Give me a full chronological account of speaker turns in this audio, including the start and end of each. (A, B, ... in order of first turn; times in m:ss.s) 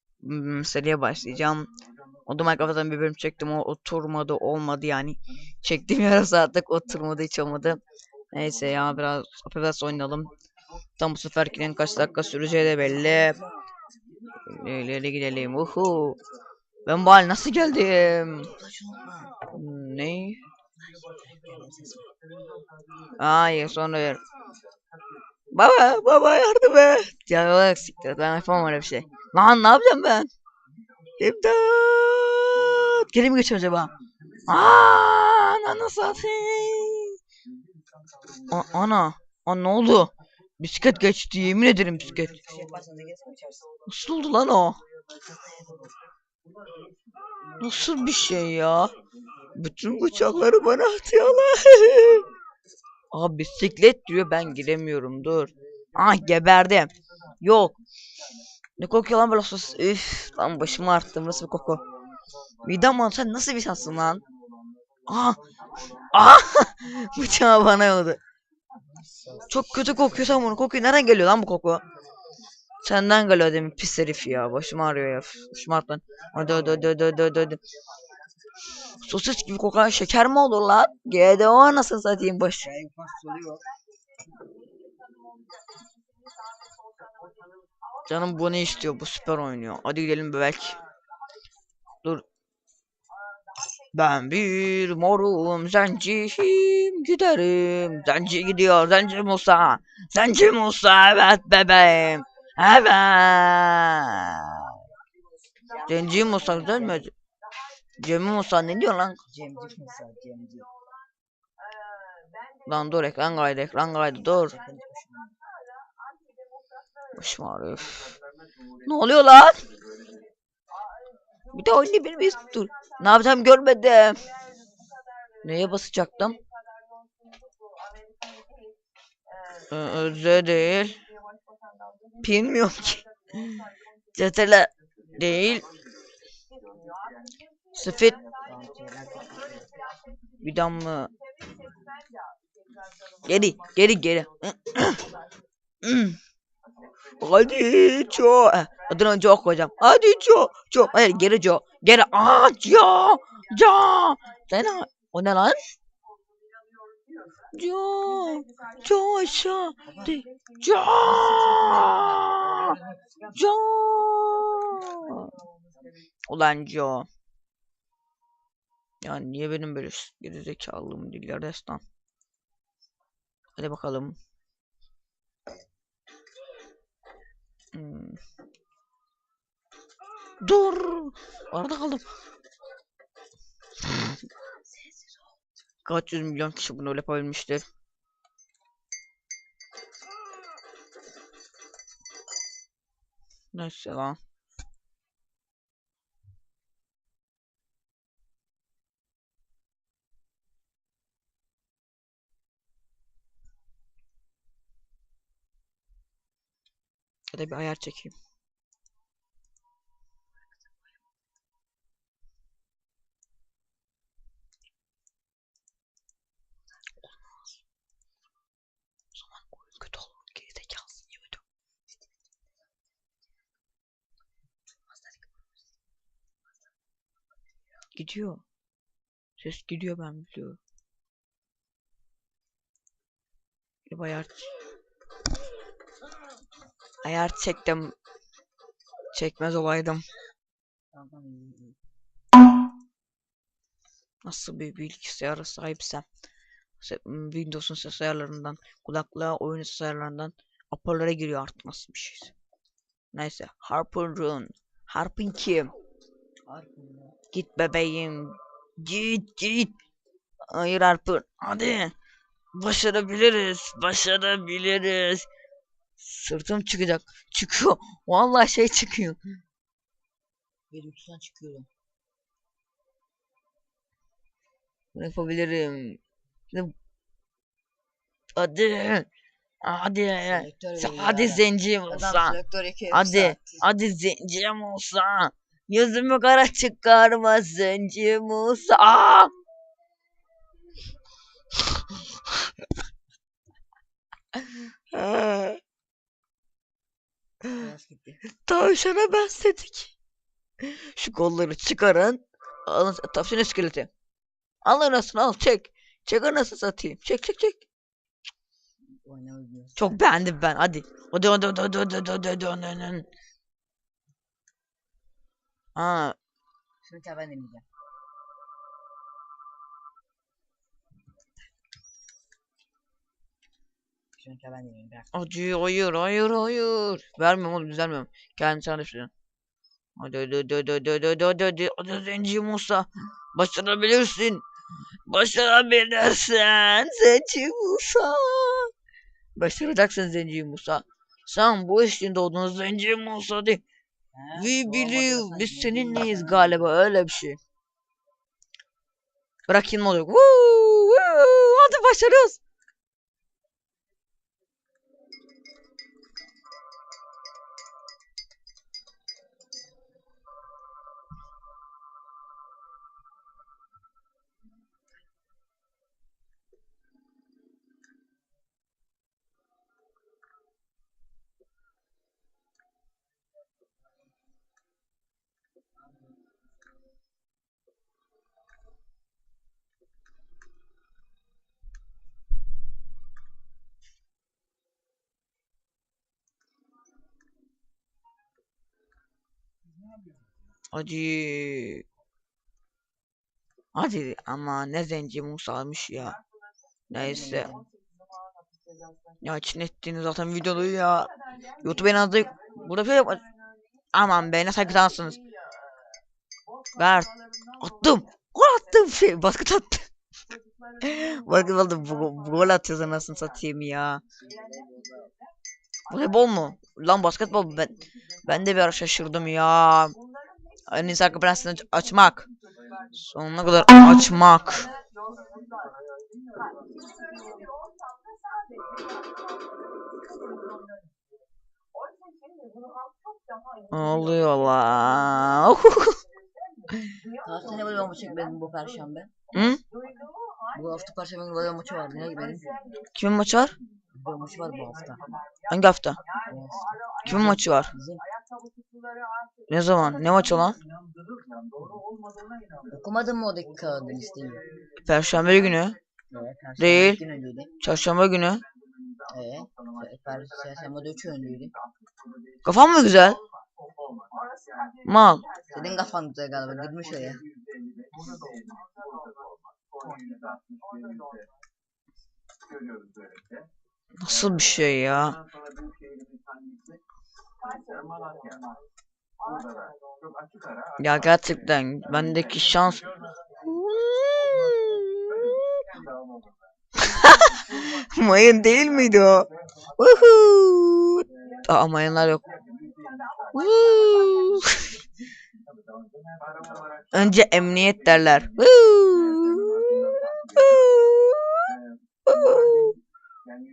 0:00.2-0:01.7 A
0:02.3-0:07.8 A
0:08.3-0:10.3 A
0:11.0-0:13.4 A
0:12.7-0:13.7 B
0:14.5-0:16.2 A
0:16.8-0:18.5 A
0:18.4-0:19.4 B
0:19.5-0:20.4 A
0:21.0-0:22.0 B
0:23.2-0:24.2 A
0:25.5-0:30.3 A
0:31.2-0:33.9 A
0:34.5-0:37.2 A
0:38.5-0:42.4 A
0:42.1-0:43.6 B
0:43.8-0:44.8 A
0:47.6-0:48.9 A
0:49.5-0:52.2 A
0:53.1-0:57.8 A
0:58.8-1:01.8 A
1:02.6-1:04.2 A
1:05.1-1:05.4 A
1:06.1-1:08.2 A
1:08.9-1:10.4 B
1:09.5-1:11.8 A
1:12.8-1:17.6 A
1:19.0-1:22.7 A
1:22.6-1:23.7 B
1:28.1-1:30.8 A
1:33.9-1:44.7 A
1:45.7-1:47.1 B
1:45.9-1:47.1 A
1:48.0-1:49.2 A
1:49.3-1:50.7 B
1:52.6-1:54.6 A
1:54.3-1:55.3 B
1:57.2-1:58.1 A
1:58.8-1:59.6 A
2:01.5-2:04.2 A
2:05.4-2:06.4 A
2:09.7-2:11.0 A
2:12.2-2:13.5 A
2:14.2-2:15.6 A
2:17.7-2:18.2 A
2:18.4-2:19.9 B
2:20.4-2:21.1 A
2:23.2-2:25.0 A
2:25.8-2:26.2 A
2:27.2-2:35.8 A
2:37.5-2:42.8 A
2:41.2-2:43.1 B
2:43.3-2:45.3 A
2:46.3-2:47.1 A
2:49.0-2:51.8 A
2:53.6-2:54.2 A
2:57.7-2:58.2 A
3:00.4-3:02.0 A
3:05.8-3:07.6 A
3:13.5-3:14.2 A
3:27.3-3:28.1 A
3:37.0-3:37.5 A
3:39.1-3:41.4 A
3:47.9-3:48.4 A
3:49.4-3:50.6 A
3:53.9-3:54.4 A
3:57.0-3:57.9 A
3:59.1-4:00.0 A
4:00.9-4:01.8 B
4:04.2-4:06.0 A
4:06.8-4:12.3 A
4:13.1-4:15.7 A
4:16.5-4:17.2 B
4:17.3-4:19.7 A
4:20.5-4:21.9 A
4:22.5-4:25.3 A
4:26.0-4:29.2 A
4:30.7-4:31.7 B
4:34.9-4:36.0 A
4:38.3-4:39.1 A
4:39.6-4:42.4 A
4:40.3-4:43.7 B
4:42.9-4:49.3 A
4:54.9-4:55.6 A
4:57.5-4:58.2 B
4:58.4-4:59.9 A
5:00.6-5:03.9 A
5:04.6-5:07.6 A
5:09.0-5:10.0 B
5:09.8-5:13.1 A
5:15.8-5:16.1 A
5:16.8-5:17.6 B
5:24.2-5:25.1 B
5:25.1-5:29.1 A
5:30.0-5:34.4 A
5:35.1-5:38.7 A
5:39.4-5:43.6 A
5:44.1-5:46.6 B
5:44.3-5:47.4 A
5:49.5-5:52.4 A
6:30.7-6:31.8 A
6:33.7-6:36.2 A
6:36.9-6:37.5 A
6:36.9-6:37.7 B
6:39.2-6:41.1 A
6:41.6-6:43.2 A
6:43.9-6:45.2 A
6:46.8-6:47.1 A
6:47.6-6:49.8 A
6:50.8-6:54.0 A
6:54.2-6:55.1 B
6:55.9-6:57.7 A
6:58.2-7:00.0 A
7:00.7-7:02.3 A
7:03.0-7:04.7 A
7:13.7-7:15.9 A
7:17.2-7:19.1 B
7:19.3-7:19.6 A
7:20.5-7:22.5 B
7:23.0-7:23.5 A
7:23.9-7:25.1 B
7:25.5-7:26.0 A
7:26.2-7:28.0 B
7:27.0-7:27.7 A
7:29.5-7:30.6 A
7:32.7-7:34.4 B
7:34.8-7:35.8 A
7:36.1-7:37.5 B
7:36.6-7:37.0 A
7:37.6-7:38.4 A
7:39.1-7:41.5 B
7:42.4-7:43.2 A
7:44.8-7:45.2 A
7:45.5-7:47.2 B
7:54.0-7:55.2 A
8:00.8-8:02.9 A
8:03.4-8:05.4 A
8:06.8-8:12.2 A
8:13.3-8:14.6 A
8:16.9-8:19.8 A
8:20.3-8:21.4 A
8:22.0-8:22.7 A